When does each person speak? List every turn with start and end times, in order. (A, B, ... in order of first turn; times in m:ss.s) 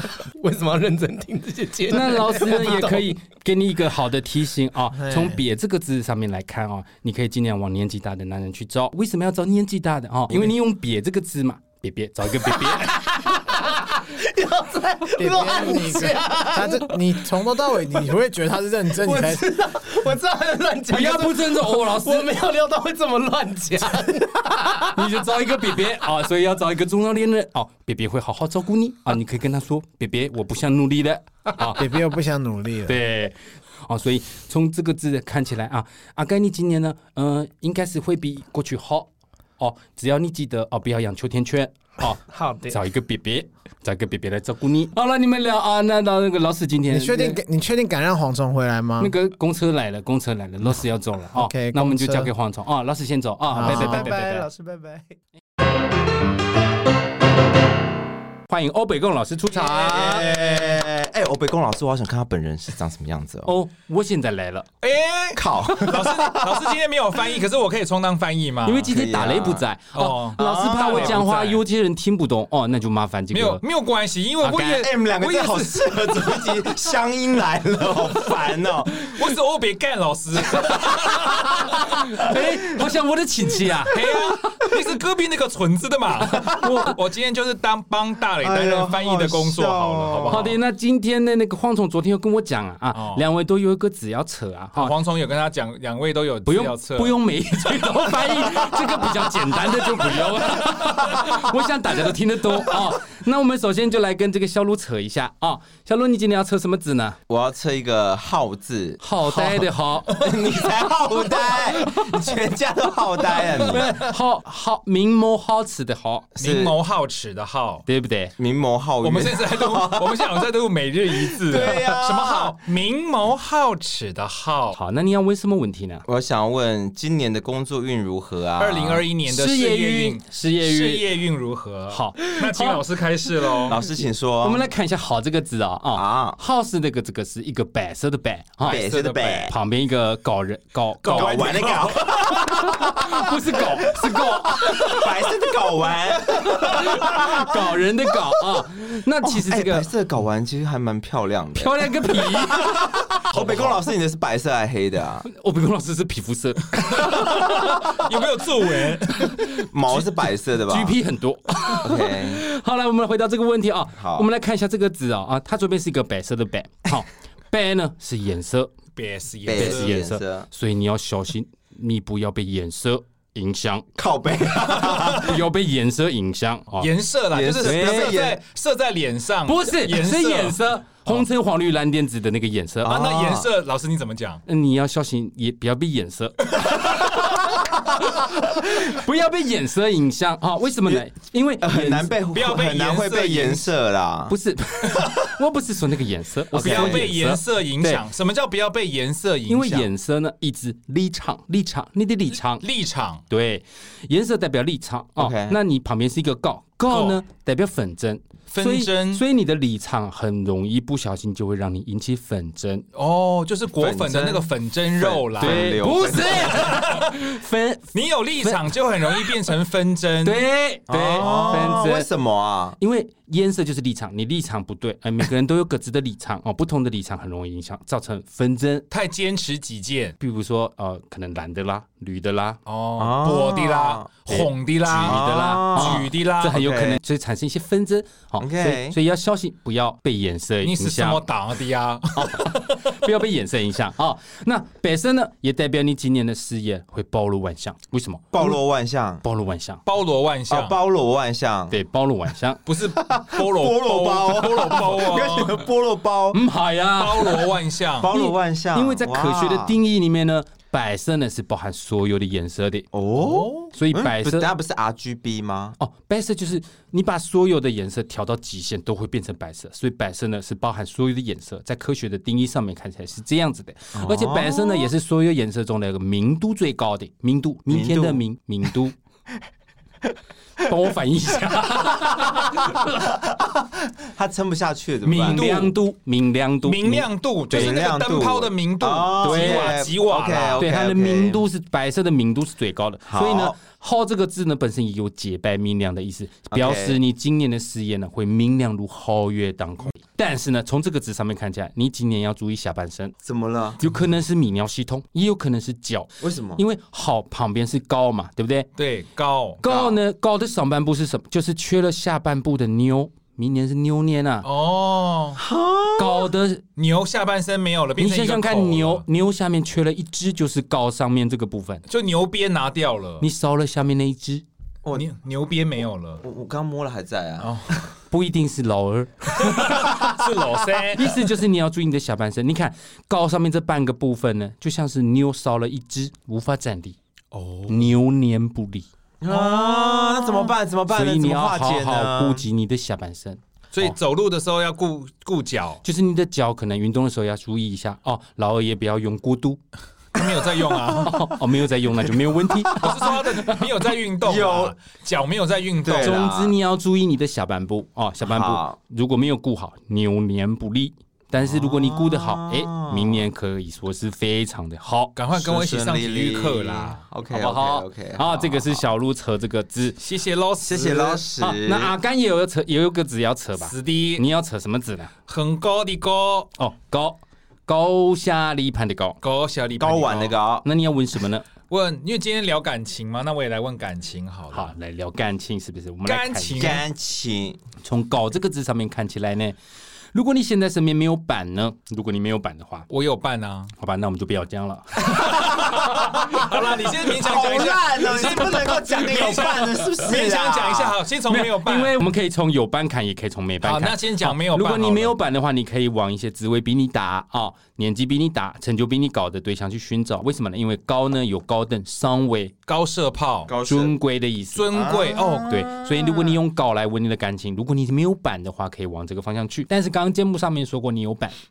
0:00.4-0:03.2 A
0:01.9-0:13.0 B
0:04.9-0:05.4 C
0:12.4-0:17.3 A
0:15.2-0:19.6 C
0:18.9-0:25.0 A
0:20.9-0:22.3 B
0:24.9-0:31.9 B
0:31.8-0:33.0 C
0:32.9-0:47.4 B
0:42.3-0:42.8 A
0:46.9-0:49.1 C
0:49.0-0:54.5 B
0:51.3-0:52.3 C
0:53.5-0:54.1 C
0:53.6-0:55.2 A
0:58.5-1:00.3 B
0:59.5-1:03.5 D
1:03.4-1:04.7 B
1:04.8-1:08.9 E
1:05.4-1:06.8 D
1:08.6-1:13.6 B
1:08.9-1:09.6 D
1:09.9-1:11.6 E
1:10.4-1:11.2 D
1:13.3-1:16.7 E
1:14.4-1:14.8 B
1:14.6-1:19.3 D
1:19.0-1:21.8 E
1:20.4-1:21.2 D
1:21.9-1:24.6 B
1:23.8-1:30.6 E
1:26.2-1:27.0 B
1:28.4-1:30.5 D
1:30.3-1:34.9 B
1:32.9-1:33.2 E
1:34.8-1:38.8 E
1:36.4-1:47.2 B
1:47.3-1:54.0 D
1:49.0-1:50.2 B
1:53.7-1:56.3 B
1:56.4-1:57.8 E
1:56.4-1:56.8 D
1:57.9-1:58.3 B
1:58.4-2:00.5 D
1:59.0-2:04.8 E
2:01.1-2:02.6 D
2:04.7-2:06.0 B
2:06.1-2:09.1 D
2:08.6-2:13.8 E
2:09.3-2:11.1 B
2:11.9-2:12.8 B
2:13.6-2:14.6 D
2:14.4-2:18.8 B
2:15.9-2:16.4 D
2:18.6-2:19.5 E
2:18.6-2:19.5 D
2:19.5-2:21.4 B
2:21.0-2:22.5 E
2:21.1-2:28.2 D
2:22.4-2:25.3 B
2:26.4-2:29.9 B
2:29.2-2:35.3 D
2:31.6-2:32.7 B
2:33.3-2:33.8 E
2:35.3-2:37.6 B
2:36.8-2:39.4 E
2:39.3-2:39.6 B
2:39.7-2:40.9 D
2:40.7-2:48.8 B
2:41.8-2:42.4 D
2:44.0-2:44.3 D
2:49.0-2:50.0 E
2:49.4-2:50.5 D
2:49.6-2:53.9 B
2:54.0-2:55.4 D
2:54.9-2:55.2 E
2:55.1-2:56.9 B
2:56.7-3:00.6 E
2:57.3-2:58.4 D
2:57.6-2:58.2 B
2:59.4-3:03.0 B
3:02.8-3:03.5 D
3:02.9-3:04.4 E
3:04.5-3:12.1 B
3:11.6-3:14.3 D
3:12.3-3:13.7 E
3:14.3-3:18.0 B
3:16.5-3:17.2 D
3:16.5-3:19.9 E
3:19.5-3:22.6 B
3:22.6-3:23.2 E
3:23.3-3:32.9 B
3:25.2-3:25.6 D
3:26.9-3:27.2 E
3:28.5-3:29.2 E
3:33.0-3:37.3 E
3:33.8-3:36.8 D
3:35.4-3:39.1 B
3:37.9-3:40.4 E
3:40.2-3:42.1 B
3:40.9-3:42.8 D
3:41.2-3:41.9 E
3:42.8-3:48.9 B
3:48.9-3:50.2 E
3:50.2-3:52.6 B
3:52.7-3:56.6 E
3:53.0-3:54.2 D
3:54.3-4:01.3 B
3:55.0-3:57.0 D
3:58.4-3:59.0 D
4:00.6-4:03.0 E
4:02.2-4:08.6 B
4:08.3-4:09.2 D
4:09.2-4:09.8 B
4:09.8-4:10.8 E
4:10.5-4:11.8 D
4:11.7-4:12.6 B
4:12.7-4:15.6 E
4:12.9-4:16.4 D
4:16.3-4:17.5 B
4:17.0-4:18.1 E
4:18.0-4:19.7 D
4:18.1-4:22.9 B
4:22.9-4:25.8 D
4:23.1-4:23.7 E
4:23.7-4:24.5 B
4:25.8-4:38.9 B
4:34.0-4:34.9 D
4:37.7-4:38.2 D
4:40.6-4:42.6 B
4:41.6-4:45.5 D
4:45.0-4:47.8 B
4:45.2-4:45.7 E
4:46.6-4:50.7 E
4:47.5-4:51.4 D
4:49.2-4:49.8 B
4:50.6-5:03.1 B
4:53.0-4:53.6 D
4:56.5-4:57.0 D
5:03.2-5:03.8 D
5:03.8-5:08.7 B
5:06.2-5:06.6 D
5:08.8-5:09.6 E
5:09.6-5:14.5 B
5:09.6-5:10.0 D
5:14.4-5:15.4 E
5:15.4-5:16.3 D
5:16.0-5:16.6 B
5:16.8-5:19.0 E
5:18.0-5:21.8 B
5:21.9-5:23.3 E
5:23.2-5:24.4 B
5:24.9-5:26.2 E
5:26.2-5:27.5 D
5:27.4-5:27.8 E
5:28.1-5:30.0 B
5:29.4-5:31.3 E
5:31.0-5:37.0 B
5:37.3-5:37.9 E
5:37.7-5:38.9 B
5:39.2-5:42.4 D
5:39.3-5:40.5 E
5:40.9-5:44.0 B
5:43.7-5:45.8 E
5:45.8-5:49.6 B
5:50.1-5:51.2 E
5:50.2-5:51.1 D
5:51.0-5:53.2 B
5:52.7-5:53.1 D
5:52.8-5:56.3 E
5:54.2-5:54.8 D
5:55.8-5:56.5 D
5:56.0-6:05.1 B
5:58.2-5:58.8 D
6:01.4-6:03.2 D
6:05.2-6:07.0 E
6:05.3-6:08.8 D
6:07.3-6:10.0 B
6:10.0-6:11.2 E
6:10.6-6:11.9 D
6:11.4-6:15.1 B
6:13.6-6:14.2 E
6:15.3-6:16.5 E
6:16.6-6:19.2 B
6:19.2-6:20.4 E
6:19.8-6:20.7 D
6:20.6-6:21.5 B
6:21.7-6:24.7 E
6:24.5-6:26.8 B
6:26.0-6:26.8 E
6:26.6-6:27.6 D
6:27.8-6:29.6 B
6:30.1-6:32.9 B
6:32.9-6:33.7 E
6:33.8-6:35.4 B
6:35.0-6:42.0 E
6:35.8-6:41.0 D
6:41.3-6:52.6 B
6:43.6-6:45.1 E
6:52.7-6:53.5 E
6:53.4-6:53.9 D
6:53.6-6:54.7 B
6:54.5-6:55.5 E
6:54.7-6:56.4 D
6:55.5-7:01.3 B